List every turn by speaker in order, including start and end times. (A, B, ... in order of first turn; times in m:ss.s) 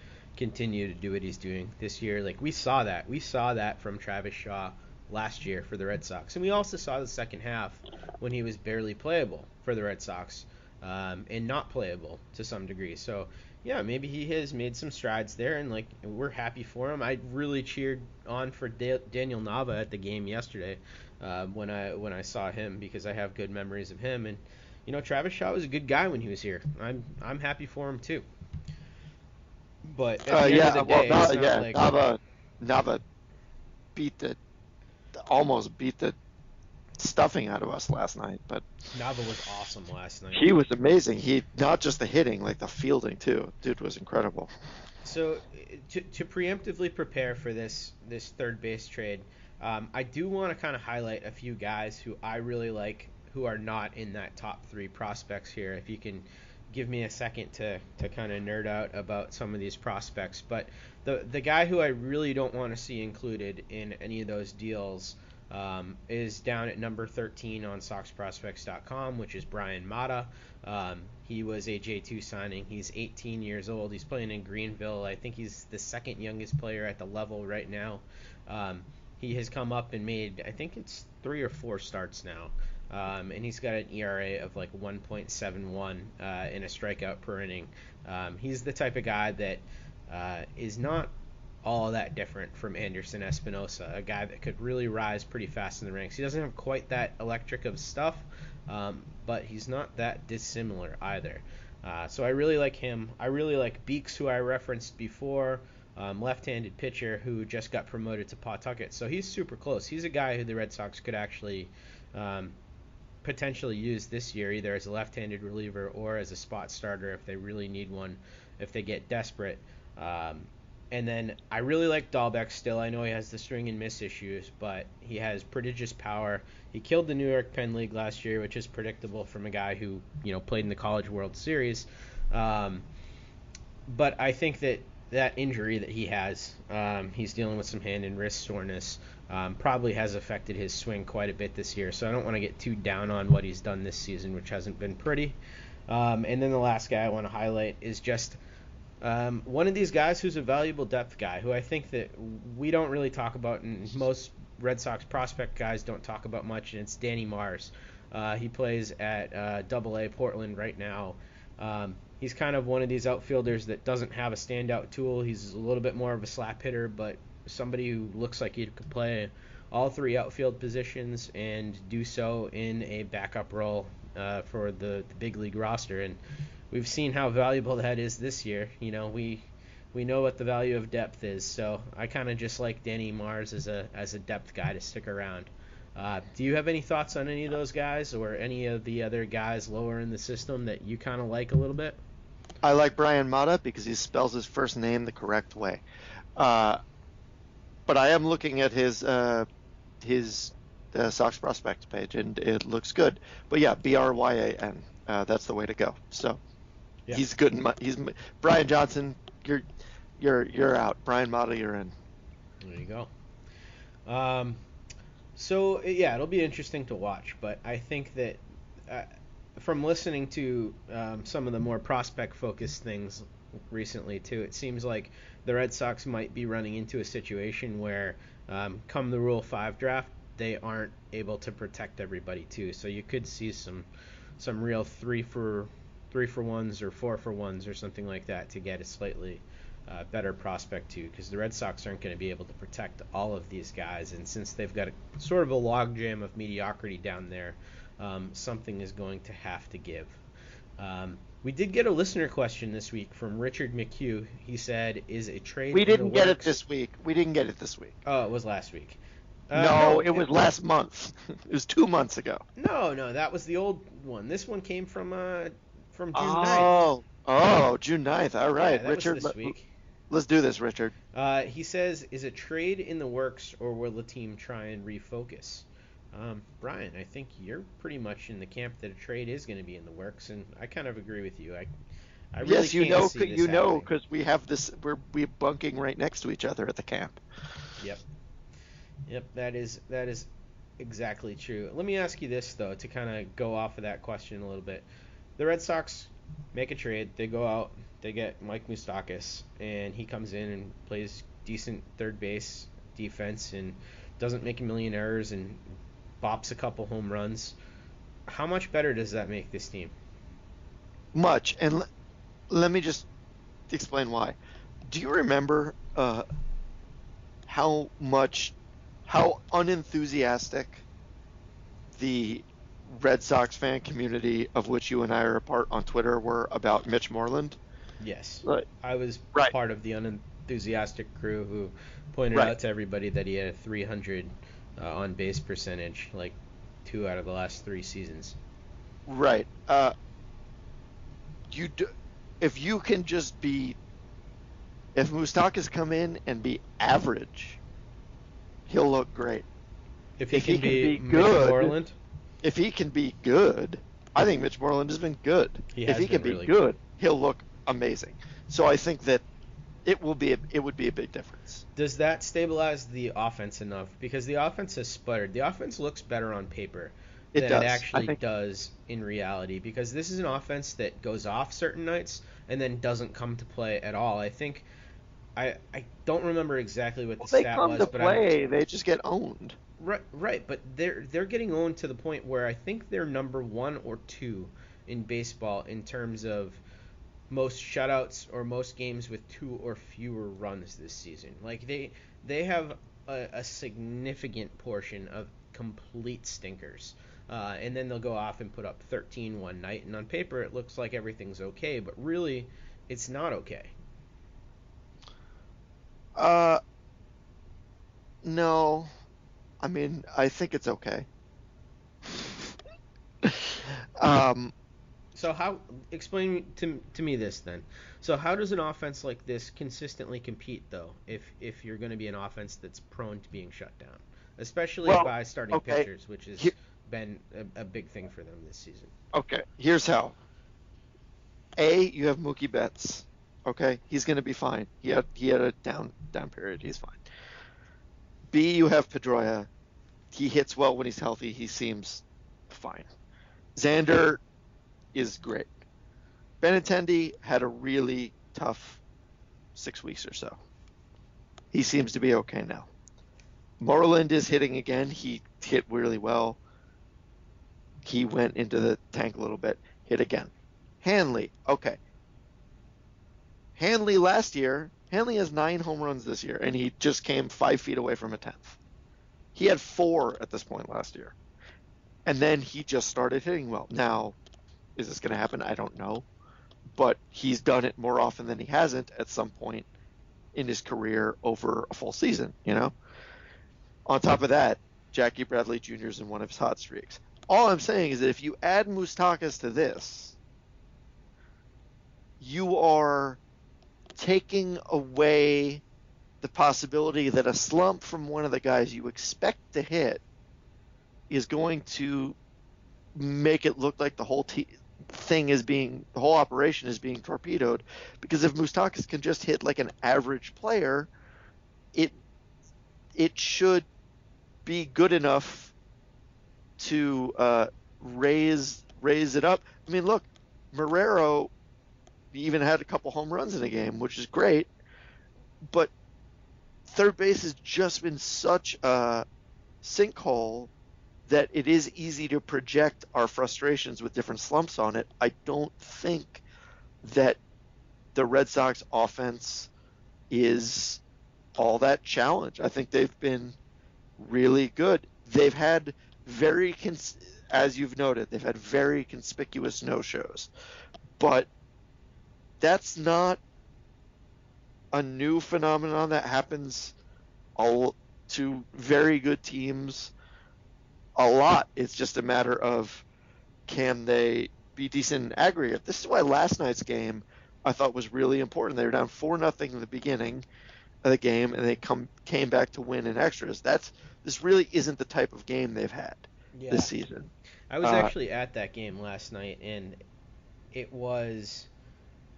0:00.4-0:28.2 A
0:29.8-0:32.1 A
0:30.3-0:33.0 B
0:33.9-0:34.4 B
0:35.2-0:36.2 B
0:37.0-0:38.6 B
0:38.9-0:40.5 A
0:40.3-0:44.5 B
0:45.0-1:31.1 A
1:31.6-1:52.6 A
1:53.2-2:12.8 A
2:13.9-2:25.4 A
2:25.9-2:28.4 A
2:29.0-2:56.2 A
2:56.7-3:12.0 A
3:12.6-3:15.8 B
3:16.4-3:16.8 B
3:17.9-3:19.4 B
3:20.0-3:26.4 B
3:27.1-3:29.6 B
3:30.2-3:31.9 B
3:32.6-3:33.1 A
3:34.0-3:34.6 A
3:35.4-3:53.9 A
3:54.4-4:10.2 A
4:10.8-4:16.6 A
4:15.7-4:17.9 B
4:18.0-4:19.0 A
4:19.5-4:20.2 A
4:19.5-4:22.4 B
4:22.6-4:26.7 A
4:26.1-4:29.5 B
4:28.6-4:29.7 A
4:30.1-4:30.9 B
4:31.1-4:41.7 A
4:42.3-4:43.9 A
4:42.4-4:47.2 B
4:49.1-4:50.3 A
4:50.8-4:54.8 A
4:55.4-5:07.6 A
5:08.3-5:09.9 A
5:11.1-5:11.8 B
5:12.5-5:13.1 B
5:13.7-5:14.4 B
5:14.9-5:16.2 B
5:17.5-5:18.5 B
5:19.0-5:20.8 B
5:21.9-5:27.6 B
5:28.0-5:38.4 A
5:39.1-5:39.9 B
5:41.5-5:41.9 B
5:42.4-5:43.8 B
5:45.0-5:47.6 B
5:48.7-5:49.4 B
5:50.2-5:52.0 A
5:50.3-5:51.7 B
5:52.4-5:59.2 B
5:55.7-5:56.6 A
5:59.8-6:01.6 B
6:01.8-6:14.7 A
6:07.3-6:08.2 B
6:15.4-6:18.3 A
6:17.2-6:19.6 B
6:19.8-6:26.6 A
6:27.3-6:43.7 A
6:46.2-6:46.6 B
6:48.2-6:48.9 B
6:49.6-6:51.1 B
6:52.1-6:52.5 B
6:53.2-6:54.5 B
6:55.2-7:08.9 A
7:04.8-7:05.9 B
7:09.1-7:10.1 B
7:11.6-7:17.0 B
7:18.3-7:19.5 B
7:20.1-7:22.9 B
7:23.6-7:24.2 B
7:24.9-7:25.5 B
7:26.4-7:28.8 B
7:29.5-7:30.4 B
7:31.5-7:32.7 B
7:33.6-7:36.4 B
7:37.8-7:40.3 B
7:40.8-7:41.8 B
7:43.6-7:48.6 B
7:49.3-7:51.1 B
7:52.0-7:54.2 B
7:54.8-7:56.0 B
7:56.7-7:59.7 B
8:00.3-8:02.7 B
8:03.9-8:10.2 B
8:12.2-8:13.2 B
8:14.0-8:15.6 B
8:16.2-8:20.0 B
8:21.1-8:22.2 B
8:22.9-8:30.9 B
8:33.0-8:33.7 B
8:34.4-8:35.5 B
8:36.6-8:41.3 B
8:42.1-8:44.5 B
8:46.7-8:49.0 B
8:49.6-8:50.5 B
8:51.1-8:56.2 B
8:56.8-8:57.2 B
8:57.9-8:59.5 B
9:00.1-9:00.8 B
9:01.4-9:03.4 B
9:04.0-9:10.3 B
9:11.0-9:11.3 B
9:12.4-9:13.2 B
9:14.7-9:16.7 B
9:17.4-9:19.9 B
9:21.0-9:22.8 B
9:23.5-9:30.2 B
9:30.8-9:37.1 B
9:36.3-9:36.7 A
9:37.5-9:39.8 A
9:37.6-9:37.9 B
9:40.5-9:41.5 A